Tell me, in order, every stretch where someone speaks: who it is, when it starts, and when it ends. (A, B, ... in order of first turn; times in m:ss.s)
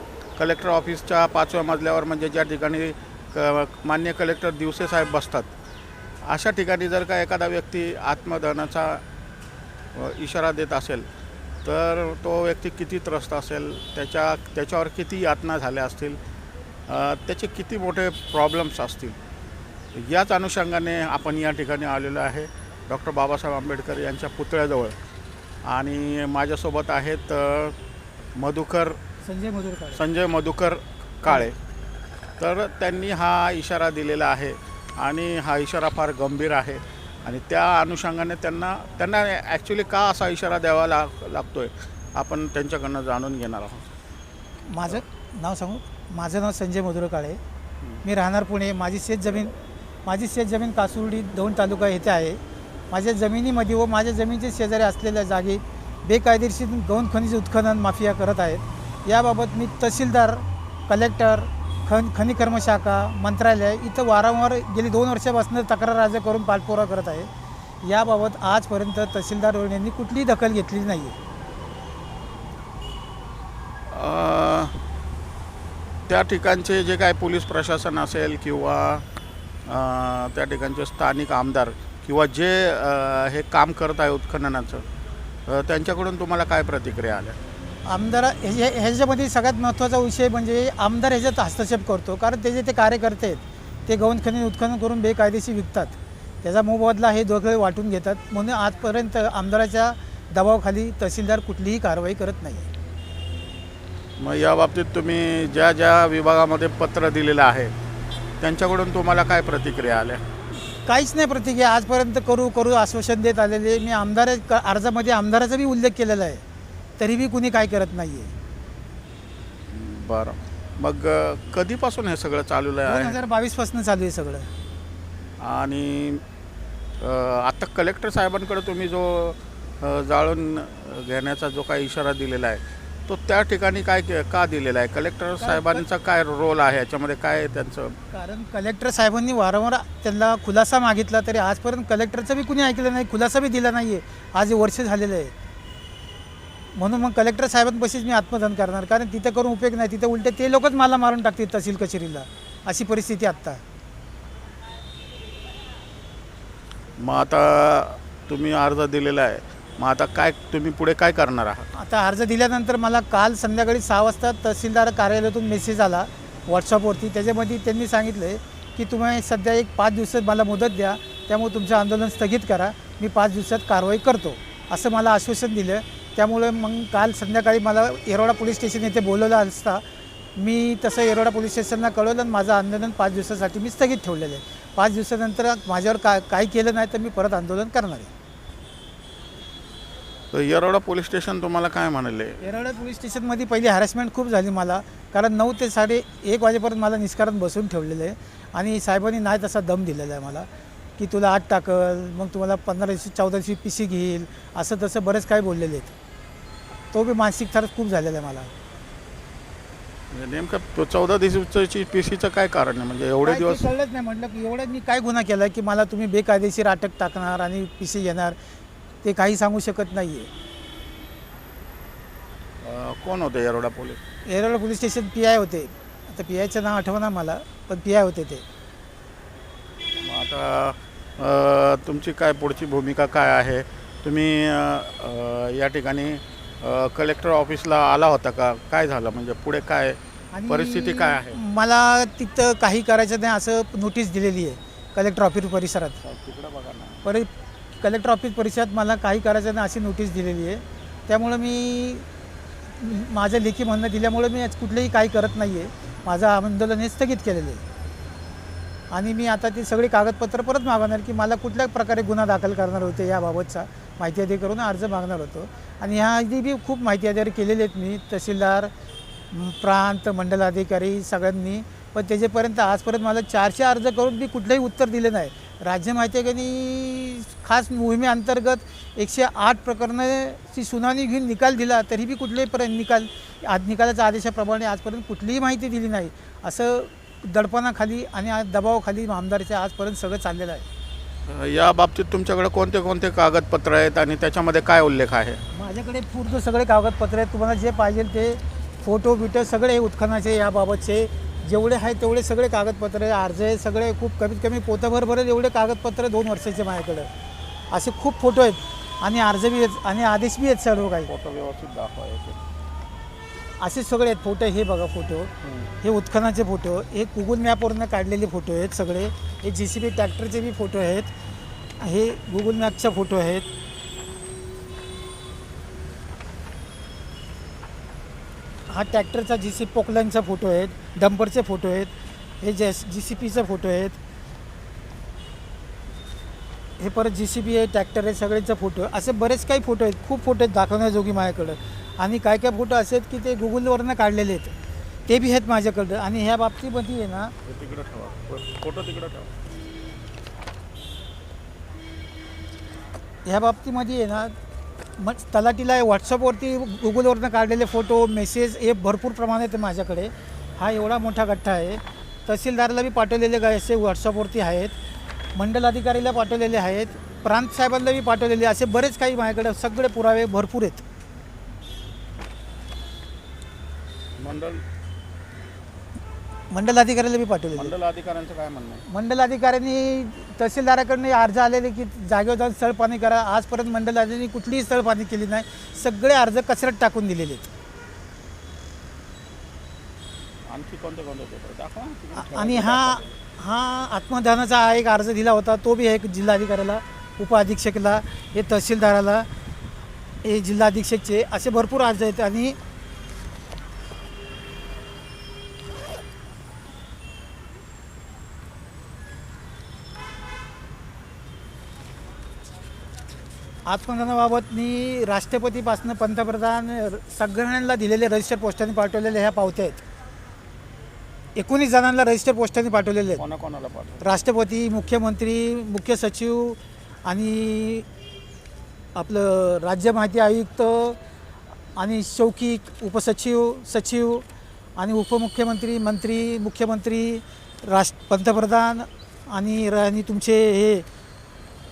0:00.4-0:05.5 A
0:06.2-0:09.0 A
0:09.9-0:11.1 A
0:11.6-0:16.2 A
0:16.9-0:19.2 A
0:19.9-0:25.0 A
0:25.6-0:27.8 A
0:28.4-0:29.0 A
0:29.2-0:30.0 B
0:29.9-0:31.6 A
0:32.4-0:43.9 A
0:44.7-0:47.4 B
0:48.0-0:49.5 B
0:50.1-0:52.4 B
0:52.9-1:07.3 B
1:07.8-1:11.2 B
1:13.9-1:14.8 A
1:16.1-1:19.0 A
1:19.7-1:24.8 A
1:25.5-1:27.4 A
1:27.9-1:42.7 B
1:44.2-1:47.7 A
1:48.4-1:50.2 A
1:50.9-1:56.4 B
1:57.0-1:58.3 B
1:59.7-2:03.2 A
2:02.8-2:04.5 B
2:05.4-2:06.2 A
2:07.0-2:18.0 A
2:15.4-2:15.8 B
2:18.1-2:25.3 B
2:26.8-2:33.6 B
2:37.0-2:41.7 A
2:41.7-2:59.8 B
3:00.4-3:08.1 B
3:10.3-3:12.4 A
3:12.4-3:26.0 B
3:26.9-3:28.5 B
3:30.1-3:33.7 A
3:33.2-3:38.4 B
3:39.0-3:40.3 B
3:42.6-3:44.0 A
3:44.3-3:48.4 B
3:50.0-4:01.4 A
4:00.3-4:06.0 B
4:06.0-4:07.0 A
4:07.0-4:07.3 B
4:07.8-4:12.1 B
4:12.8-4:17.6 B
4:18.9-4:28.7 B
4:29.3-4:50.7 B
4:51.3-4:55.4 A
4:55.5-5:07.1 B
5:07.7-5:11.1 B
5:11.0-5:12.4 A
5:13.6-5:21.1 B
5:15.4-5:15.7 A
5:21.8-5:23.5 B
5:28.7-5:34.0 B
5:36.8-5:44.6 B
5:45.1-5:47.3 B
5:47.5-5:49.3 A
5:53.3-5:54.3 B
5:55.0-6:04.8 B
6:05.4-6:10.8 B
6:14.2-6:14.6 A
6:16.5-6:17.7 B
6:17.5-6:18.8 A
6:18.9-6:27.5 B
6:30.5-6:33.2 A
6:32.2-6:39.3 B
6:40.2-6:42.6 B
6:53.7-6:59.8 B
7:01.4-7:03.2 B
7:03.2-7:04.1 A
7:04.0-7:07.9 B
7:09.0-7:11.0 B
7:11.8-7:14.2 B
7:14.8-7:20.8 B